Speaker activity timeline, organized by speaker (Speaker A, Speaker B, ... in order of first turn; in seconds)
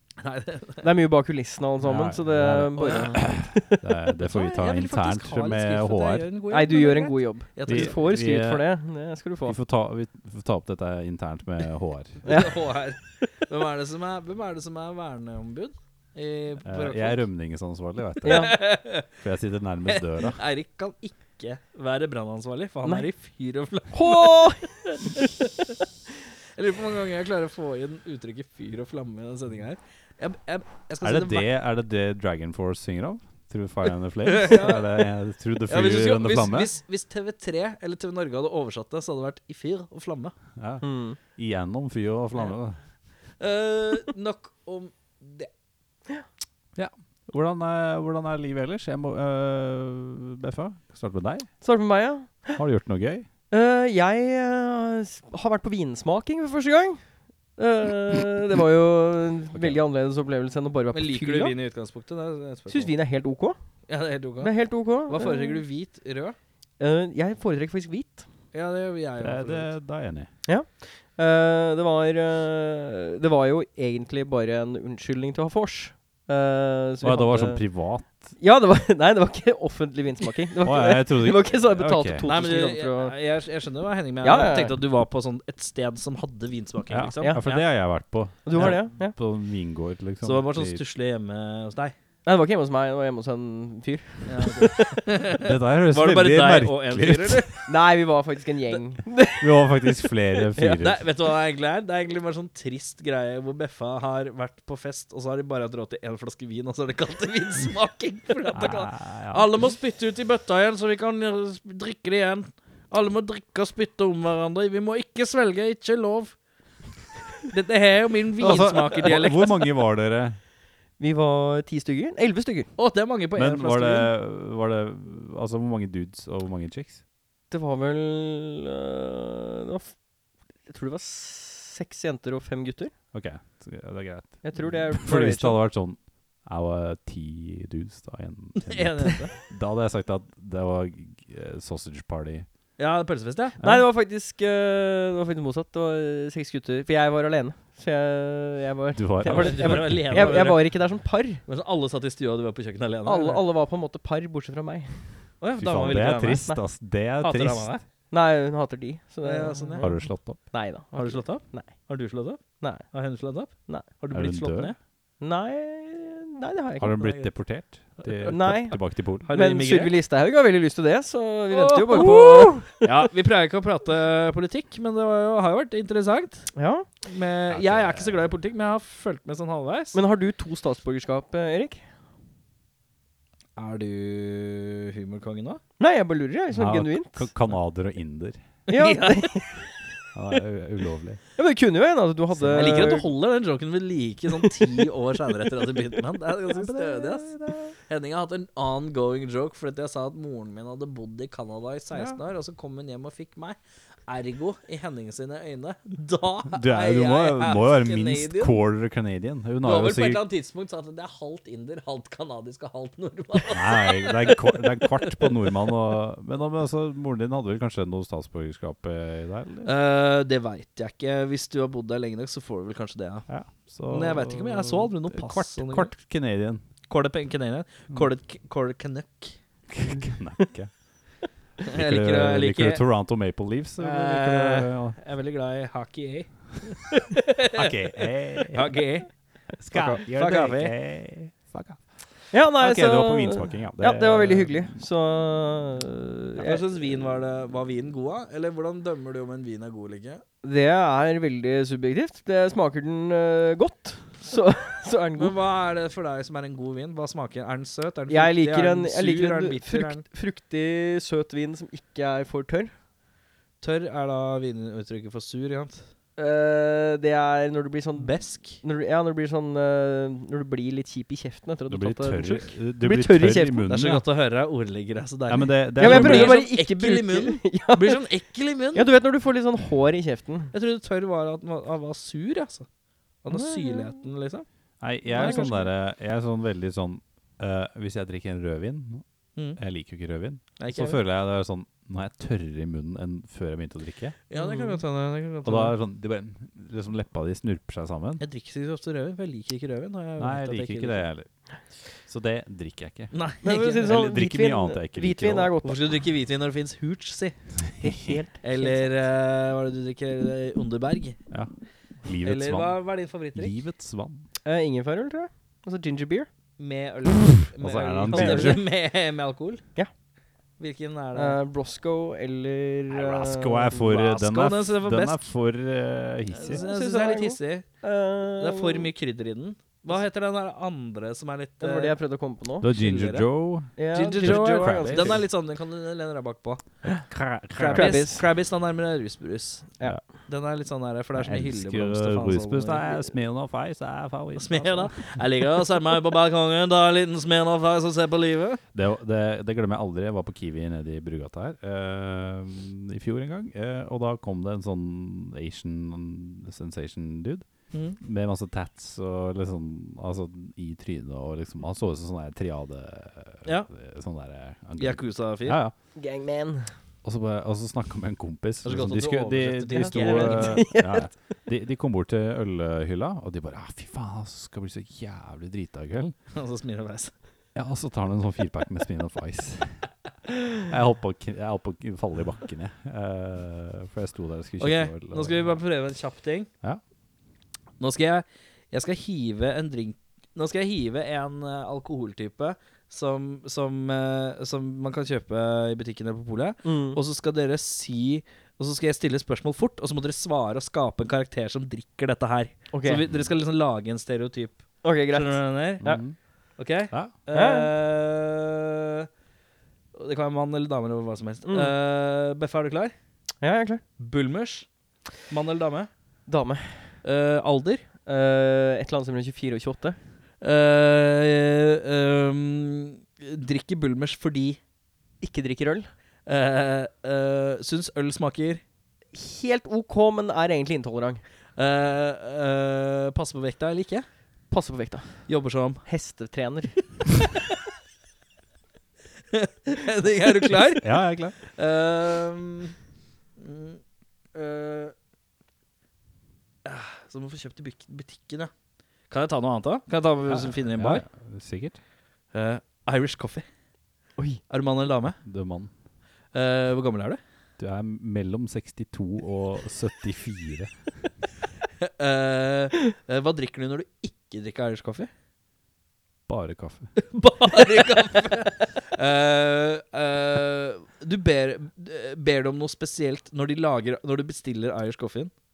Speaker A: 0.2-0.8, 2.8-3.2, 4.2-7.9, 12.2-17.2, 18.3-19.1, 19.9-25.2, 26.6-31.5, 34.2-35.0, 35.7-40.3, 43.4-45.5, 60.9-62.9, 63.9-66.4, 68.5-69.7, 82.2-87.4, 90.2-91.9, 94.2-97.7, 100.8-116.4, 117.5-119.6, 122.8-124.1, 138.6-139.3, 142.8-143.8, 149.2-150.8, 151.4-153.4, 155.4-156.4, 157.2-157.8, 159.2-159.9, 160.9-164.8, 167.0-167.3, 169.2-170.0, 171.5-176.5, 177.0-180.0, 183.6-185.6, 188.7-189.4, 192.4-208.6, 209.6-215.1, 219.6-223.3, 223.9-225.9, 226.9-229.4, 231.6-232.8, 233.8-237.7, 238.5-239.1, 239.7-240.7, 246.4-250.2, 255.2-260.1, 263.6-265.9, 268.0-268.6, 273.7-278.9, 280.5-282.7, 283.2-284.4, 285.1-285.7, 290.6-291.0, 294.3-295.8, 298.2-301.0, 303.1-303.9, 305.6-307.4, 308.4-311.2, 312.2-313.5, 316.6-319.7, 320.6-321.4, 323.9-325.3, 326.3-327.7, 328.4-332.0, 332.7-336.6, 337.6-343.0, 344.4-348.6, 357.7-358.0, 364.8-365.6, 368.6-370.6, 376.3-377.1, 384.6-386.5, 387.8-405.9, 406.6-409.1, 409.9-412.9, 414.0-414.7, 415.2-415.9, 417.0-417.9, 420.4-424.6, 426.2-428.6, 431.6-434.1, 435.3-435.8, 439.3-440.9, 441.4-442.7, 443.4-443.8, 444.3-444.9, 446.6-448.5, 449.1-451.0, 452.3-453.4, 454.5-455.2, 456.3-457.2, 461.8-465.1, 467.0-475.3
Speaker B: 0.8-3.6, 6.5-9.6, 12.2-12.6, 18.2-18.6, 23.9-24.8, 40.8-41.2, 51.6-52.6, 53.5-61.5, 62.7-63.6, 64.4-65.6, 66.8-68.3, 70.5-83.2, 84.2-84.8, 87.2-89.2, 92.2-95.0, 97.7-99.5, 100.5-100.8, 121.0-122.7, 127.5-130.1, 130.6-132.9, 134.4-135.6, 143.6-151.4, 153.1-155.3, 158.1-162.0, 162.6-163.9, 165.2-167.1, 168.3-172.8, 176.6-176.9, 179.9-181.9, 185.8-187.3, 188.7-189.7, 191.4-193.1, 242.3-246.7, 250.4-255.3, 258.1-262.7, 266.2-273.7, 275.8-278.1, 278.7-280.5, 283.3-283.9, 294.4-294.8, 303.4-305.9, 307.8-308.9, 314.4-316.3, 318.1-318.6, 321.2-323.8, 326.5-328.9, 331.6-332.7, 333.8-335.2, 337.7-338.2, 365.9-366.7, 369.8-371.1, 396.6-397.0, 402.7-403.0, 404.8-406.0, 407.3-407.7, 411.4-411.7, 413.4-413.8, 416.3-417.0, 418.1-420.0, 425.2-425.9, 429.1-431.2, 434.5-437.1
Speaker C: 1.8-6.3, 7.7-8.6, 9.4-12.2, 16.6-20.4, 31.0-36.7, 40.6-42.8, 46.8-51.5, 52.5-53.3, 59.5-59.8, 69.2-70.3, 77.0-78.3, 80.6-82.2, 86.9-90.8, 95.4-97.5, 99.3-101.0, 108.5-109.5, 118.4-120.4, 123.4-127.0, 133.1-142.5, 148.9-150.6, 155.5-157.8, 159.8-160.4, 164.1-164.7, 166.8-169.3, 177.5-178.3, 186.5-188.4, 190.1-191.2, 192.5-193.0, 196.5-197.6, 206.5-210.2, 213.5-219.7, 223.3-226.6, 229.7-230.8, 231.7-235.0, 237.5-238.7, 239.6-244.7, 271.7-274.1, 275.3-276.4, 284.8-289.0, 289.6-294.1, 295.4-298.2, 300.2-301.3, 302.1-303.1, 303.7-305.5, 307.8-308.1, 311.3-314.3, 317.6-318.6, 322.9-326.6, 332.6-335.2, 336.8-338.1, 341.2-345.0, 348.7-357.4, 358.0-365.7, 367.0-376.1, 377.6-379.9, 380.6-385.6, 405.8-406.2, 440.8-441.4, 450.3-451.8, 455.2-455.7, 457.6-460.8, 466.3-466.9